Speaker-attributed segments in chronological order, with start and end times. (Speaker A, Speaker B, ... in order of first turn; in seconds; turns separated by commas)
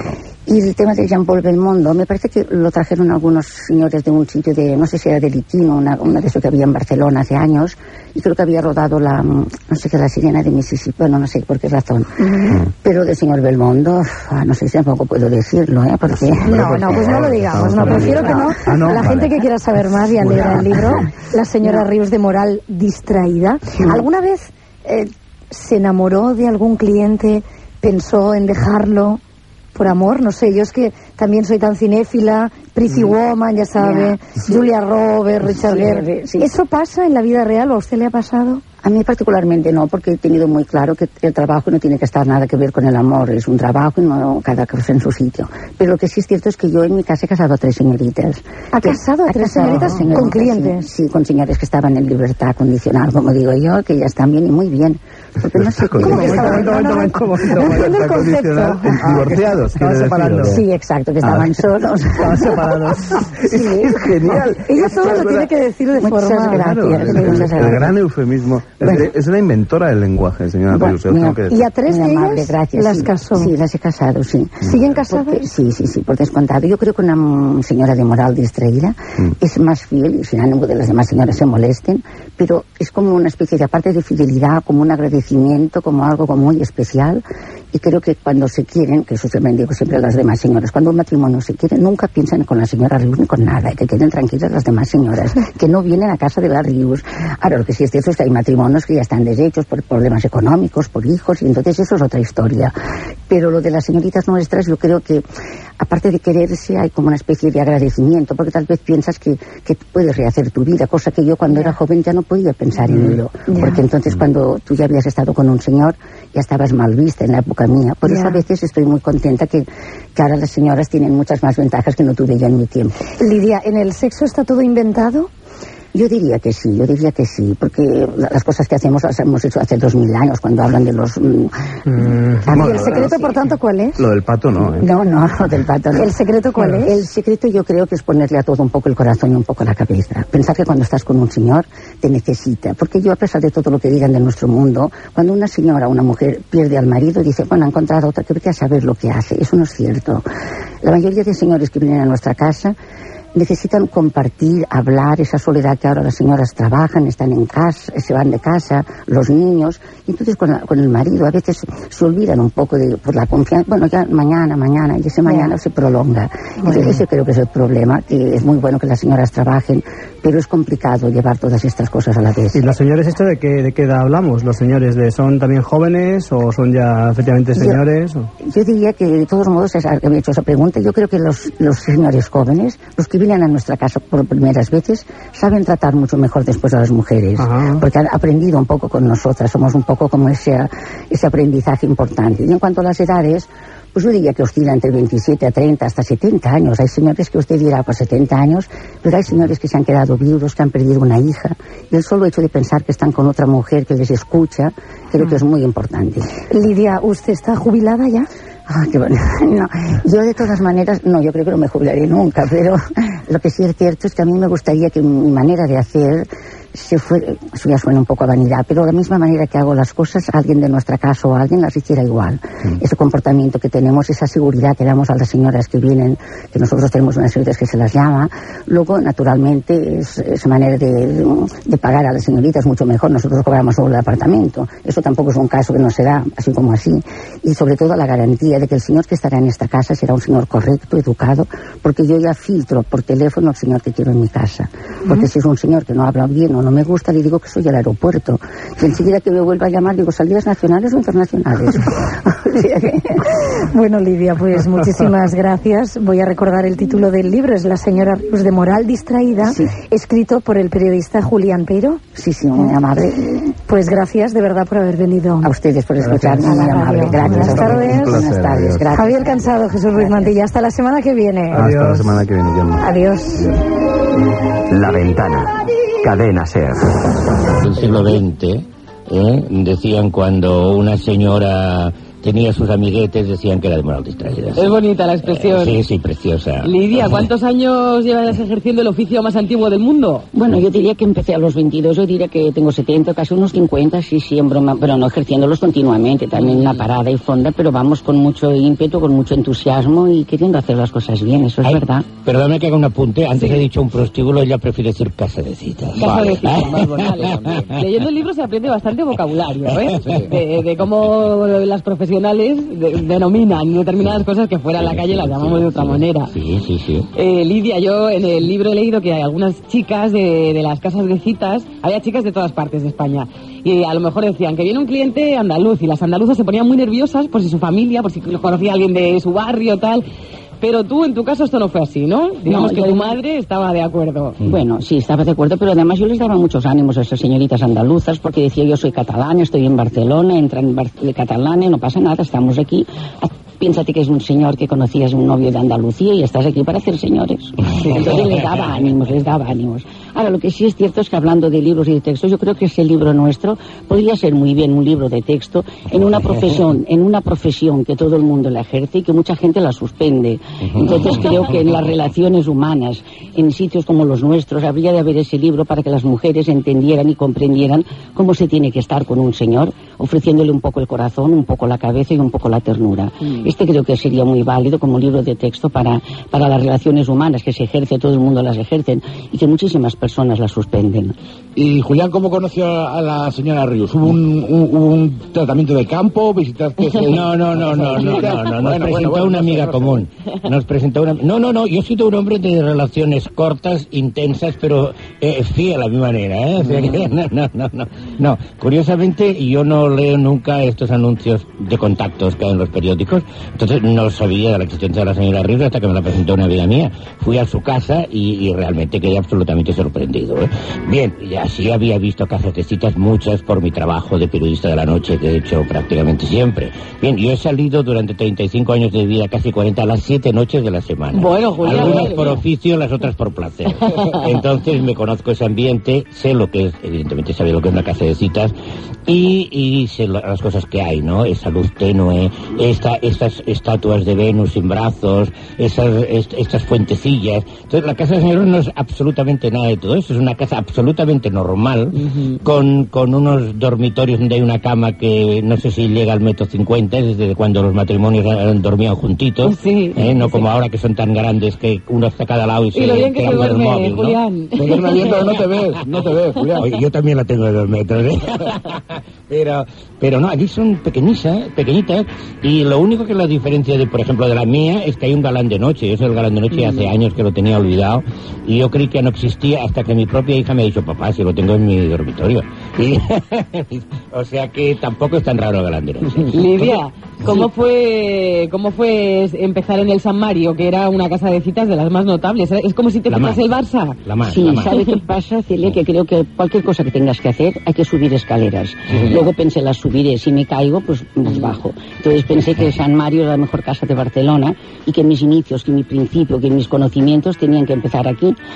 Speaker A: 0.5-17.2, Speaker B: 12.2-12.6, Speaker C: 16.2-19.4, Speaker B: 16.4-29.2, Speaker A: 17.8-18.5, Speaker C: 20.2-21.1, Speaker B: 29.8-38.6, Speaker A: 33.8-34.2, Speaker A: 35.4-36.5, Speaker A: 38.8-57.0, Speaker B: 48.7-50.9, Speaker D: 49.6-50.1, Speaker C: 55.5-56.7, Speaker B: 56.0-59.3, Speaker D: 56.0-58.2, Speaker C: 57.5-60.6, Speaker D: 58.9-60.6, Speaker A: 60.4-62.7, Speaker D: 62.2-63.3, Speaker C: 63.2-65.5, Speaker A: 63.5-64.0, Speaker B: 64.7-67.6, Speaker A: 66.0-68.0, Speaker C: 66.4-71.7, Speaker A: 68.8-69.1, Speaker A: 70.7-102.8, Speaker B: 71.5-73.5, Speaker B: 74.6-75.5, Speaker A: 103.3-105.2, Speaker A: 105.8-122.9, Speaker B: 111.5-111.8, Speaker B: 113.5-113.8, Speaker B: 118.0-118.4, Speaker B: 123.2-125.3, Speaker A: 125.9-131.5, Speaker D: 131.9-132.4, Speaker A: 132.4-133.3, Speaker C: 132.5-133.2, Speaker B: 132.5-134.1, Speaker C: 134.0-134.9, Speaker A: 134.8-136.2, Speaker B: 135.9-137.0, Speaker A: 136.8-150.2, Speaker A: 150.8-152.8, Speaker A: 153.3-172.6, Speaker B: 166.6-167.0, Speaker D: 172.5-178.3, Speaker A: 177.5-177.8, Speaker A: 178.4-206.4, Speaker D: 187.4-187.8, Speaker B: 206.5-208.3, Speaker A: 208.7-253.2, Speaker B: 253.3-262.0, Speaker A: 259.4-259.7, Speaker A: 262.1-263.5, Speaker B: 263.7-265.5, Speaker A: 265.4-269.4, Speaker B: 266.4-268.2, Speaker C: 267.2-268.9, Speaker B: 268.9-271.7, Speaker D: 271.5-272.1, Speaker C: 271.5-273.6, Speaker B: 272.8-273.5, Speaker E: 274.7-277.1, Speaker F: 277.5-287.3, Speaker G: 284.6-285.8, Speaker G: 286.6-290.3, Speaker A: 290.3-302.1, Speaker G: 296.4-296.8, Speaker F: 301.6-307.7, Speaker G: 303.3-303.7, Speaker G: 306.0-316.3, Speaker H: 306.1-307.7, Speaker F: 309.6-310.3, Speaker H: 310.0-310.3, Speaker F: 314.8-317.1, Speaker G: 317.1-330.1, Speaker G: 330.6-334.4, Speaker A: 332.5-333.2, Speaker A: 334.4-381.1, Speaker H: 381.6-390.1, Speaker F: 387.1-428.5, Speaker G: 421.1-422.4, Speaker G: 423.9-424.3, Speaker F: 429.1-455.8, Speaker G: 442.0-442.4, Speaker G: 449.4-450.5, Speaker G: 452.7-455.3, Speaker H: 454.6-456.7, Speaker F: 456.6-477.4, Speaker G: 466.5-466.9, Speaker G: 476.3-484.0, Speaker F: 483.1-484.8, Speaker A: 484.3-498.4